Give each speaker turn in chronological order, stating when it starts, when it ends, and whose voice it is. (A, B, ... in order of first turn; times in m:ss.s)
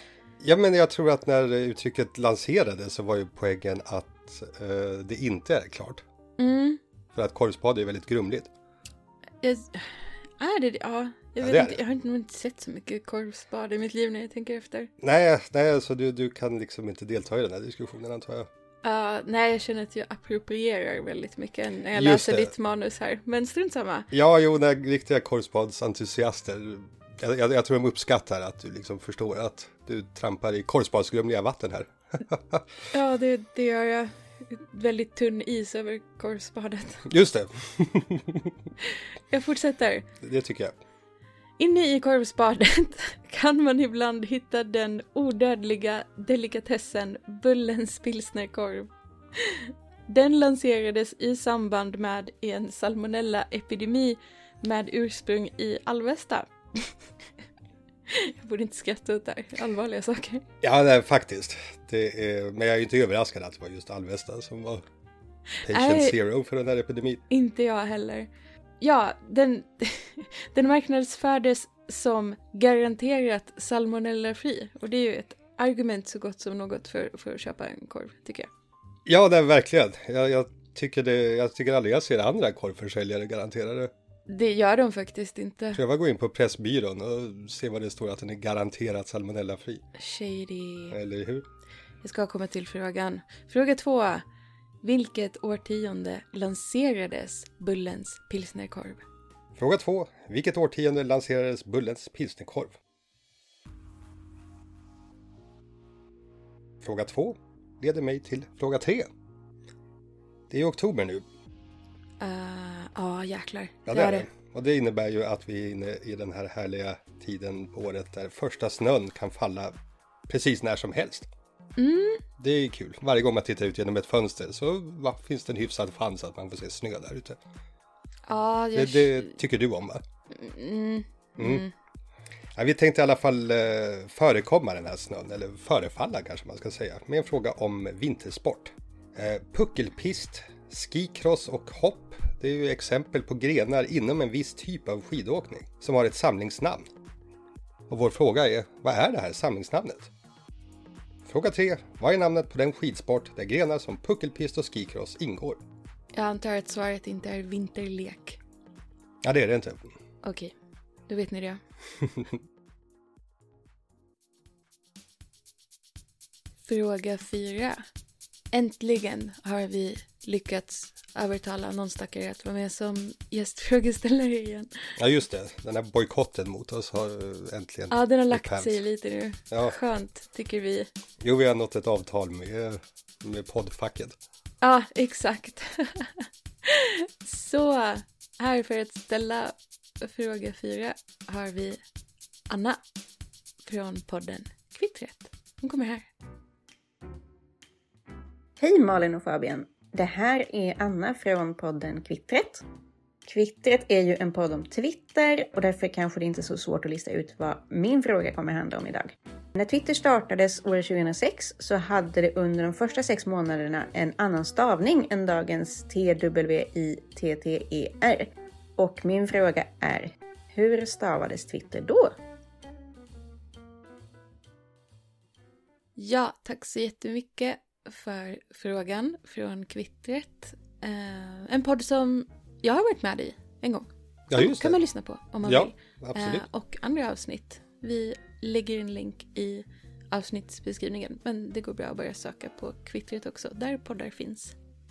0:00.4-0:06.0 A
0:06.4-0:06.8 B
0:07.1-0:08.5 A
0:09.4-0:14.9 B
0:11.4-0:11.8 A
0:15.0-0:18.5 A
0:18.8-0:24.1 B
0:21.9-0:22.5 A
0:24.1-0:32.7 A
0:32.9-0:37.0 B
0:37.1-0:38.5 A
0:38.8-0:40.1 B
0:40.2-0:40.8 A
0:41.6-0:56.9 B
0:58.1-1:00.4 B
1:00.6-1:04.8 A
1:05.6-1:06.2 B
1:05.6-1:07.2 A
1:07.3-1:08.3 B
1:08.8-1:18.5 B
1:19.0-1:23.9 A
1:24.3-1:25.8 B
1:25.7-1:29.8 A
1:30.0-1:31.0 B
1:30.9-1:31.4 A
1:32.0-1:34.2 B
1:34.8-1:39.0 B
1:39.6-1:42.8 A
1:46.8-1:49.1 A
1:50.5-1:51.2 A
1:52.2-1:54.3 B
1:53.9-1:59.7 A
2:00.3-2:01.3 A
2:01.8-2:02.2 B
2:02.4-2:07.4 A
2:08.3-2:09.4 B
2:08.7-2:10.0 A
2:10.3-2:11.7 B
2:11.4-2:11.6 A
2:12.6-2:26.8 A
2:27.9-2:30.1 A
2:31.2-2:35.6 A
2:36.1-2:38.4 B
2:39.2-2:39.9 A
2:40.2-2:40.5 B
2:41.1-2:41.6 B
2:46.6-2:47.8 B
2:48.5-2:54.7 B
2:55.0-2:58.8 A
2:57.9-3:00.9 B
3:01.2-3:04.2 A
3:04.6-3:11.8 B
3:12.5-3:12.8 B
3:13.6-3:16.1 B
3:18.6-3:22.6 C
3:23.2-3:42.2 C
3:46.0-4:04.5 B
3:54.3-3:54.8 A
3:55.4-3:56.4 A